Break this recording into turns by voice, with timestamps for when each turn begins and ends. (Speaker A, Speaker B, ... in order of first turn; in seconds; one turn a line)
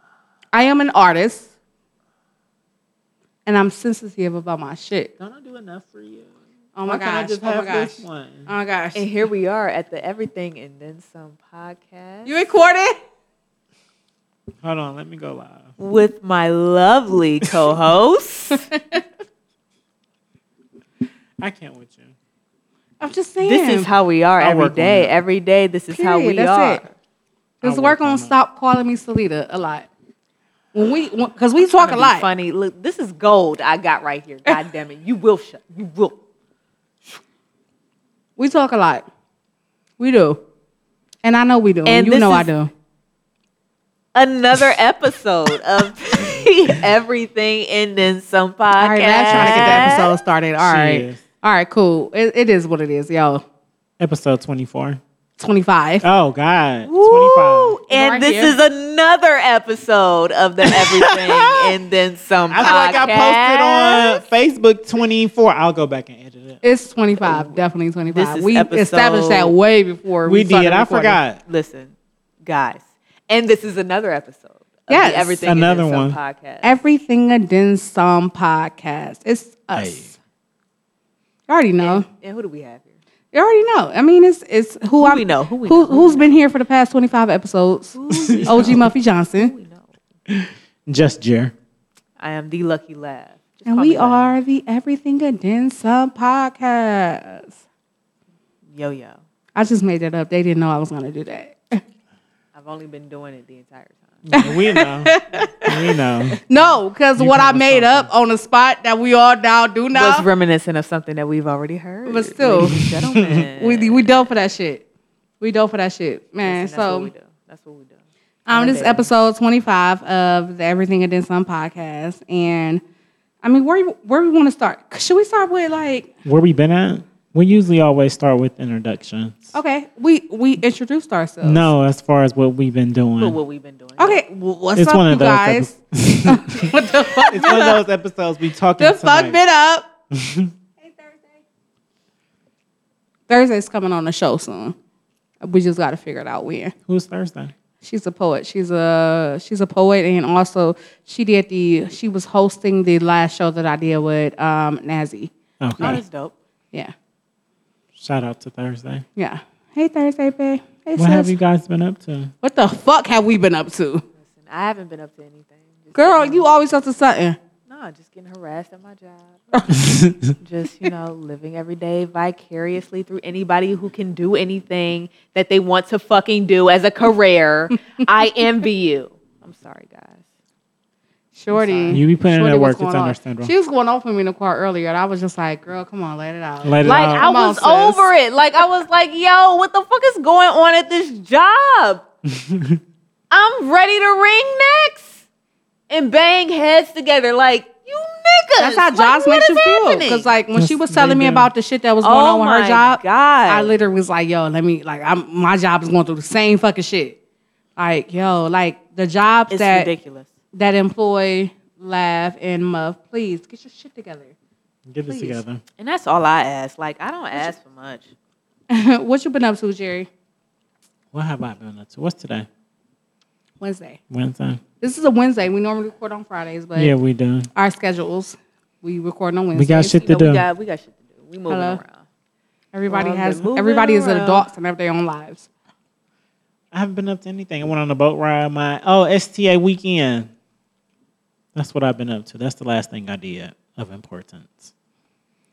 Speaker A: 0.5-1.5
Speaker A: 3.5-5.1
Speaker B: 5.2-6.3
Speaker A: 6.8-8.0
Speaker B: 6.8-8.5
Speaker A: 8.5-9.0
Speaker C: 8.9-12.4
Speaker A: 12.3-12.9
Speaker B: 14.6-15.7
Speaker C: 15.8-18.6
Speaker A: 18.7-19.0
Speaker B: 21.4-22.1
Speaker A: 23.0-23.9
Speaker C: 23.4-26.9
Speaker B: 24.4-25.1
Speaker A: 25.9-26.8
Speaker A: 27.6-29.9
Speaker B: 27.6-28.3
Speaker A: 30.7-32.3
Speaker C: 31.8-36.2
Speaker A: 38.4-39.0
Speaker A: 40.0-40.4
Speaker A: 41.2-42.7
Speaker C: 41.9-42.5
Speaker C: 44.1-50.1
Speaker A: 48.8-53.4
Speaker B: 49.3-50.0
Speaker B: 50.6-51.2
Speaker B: 54.0-55.0
Speaker A: 55.4-56.0
Speaker B: 56.0-57.7
Speaker C: 56.9-64.2
Speaker A: 57.9-58.5
Speaker B: 60.7-61.8
Speaker B: 62.5-66.6
Speaker A: 66.6-71.2
Speaker C: 68.1-69.5
Speaker B: 70.2-71.4
Speaker C: 71.4-71.9
Speaker C: 72.4-76.8
Speaker A: 74.9-75.4
Speaker B: 75.4-76.2
Speaker A: 76.6-80.1
Speaker B: 79.8-80.1
Speaker A: 81.5-82.1
Speaker C: 81.8-82.9
Speaker A: 83.3-89.5
Speaker C: 85.0-86.3
Speaker C: 88.0-89.9
Speaker B: 88.1-88.8
Speaker B: 90.3-91.5
Speaker C: 92.2-94.3
Speaker A: 93.7-97.6
Speaker C: 98.7-99.2
Speaker A: 99.6-101.8
Speaker C: 102.5-104.2
Speaker B: 104.2-105.1
Speaker A: 104.3-105.7
Speaker B: 105.7-106.4
Speaker A: 106.5-110.3
Speaker B: 107.2-108.1
Speaker C: 109.9-114.2
Speaker A: 112.1-112.8
Speaker B: 112.7-113.5
Speaker A: 113.6-114.8
Speaker A: 115.4-117.1
Speaker C: 116.4-119.1
Speaker A: 118.5-122.8
Speaker A: 123.4-126.1
Speaker B: 126.2-129.5
Speaker A: 129.5-131.7
Speaker B: 131.4-133.4
Speaker C: 133.2-134.2
Speaker A: 134.0-135.7
Speaker B: 134.8-136.7
Speaker A: 136.3-137.8
Speaker B: 137.3-139.4
Speaker A: 138.8-139.9
Speaker B: 140.1-140.5
Speaker A: 140.8-141.4
Speaker A: 143.3-144.8
Speaker A: 145.4-146.7
Speaker B: 146.9-147.5
Speaker A: 147.8-156.0
Speaker B: 155.6-156.0
Speaker C: 155.8-156.3
Speaker B: 157.9-159.0
Speaker A: 159.2-161.3
Speaker B: 161.0-162.3
Speaker A: 162.4-164.0
Speaker C: 164.3-166.5
Speaker A: 165.9-167.4
Speaker C: 167.7-169.5
Speaker B: 169.7-170.3
Speaker C: 170.4-180.2
Speaker A: 181.3-188.1
Speaker C: 181.5-182.0
Speaker B: 181.9-183.5
Speaker B: 186.6-187.3
Speaker C: 186.8-192.0
Speaker B: 192.2-192.8
Speaker C: 193.3-195.2
Speaker C: 195.9-200.3
Speaker A: 198.6-207.2
Speaker B: 200.5-201.5
Speaker C: 202.0-203.7
Speaker A: 207.8-209.9
Speaker C: 209.5-210.3
Speaker A: 210.5-214.3
Speaker B: 214.9-215.6
Speaker A: 215.1-215.4
Speaker C: 215.8-218.1
Speaker A: 218.7-220.1
Speaker B: 221.1-222.5
Speaker A: 223.6-224.0
Speaker B: 224.1-224.6
Speaker A: 224.8-226.9
Speaker B: 226.8-227.5
Speaker A: 227.5-230.0
Speaker B: 229.5-230.4
Speaker C: 229.9-232.0
Speaker A: 231.5-231.8
Speaker A: 232.7-235.5
Speaker C: 232.9-234.5
Speaker B: 236.7-240.3
Speaker B: 241.5-244.7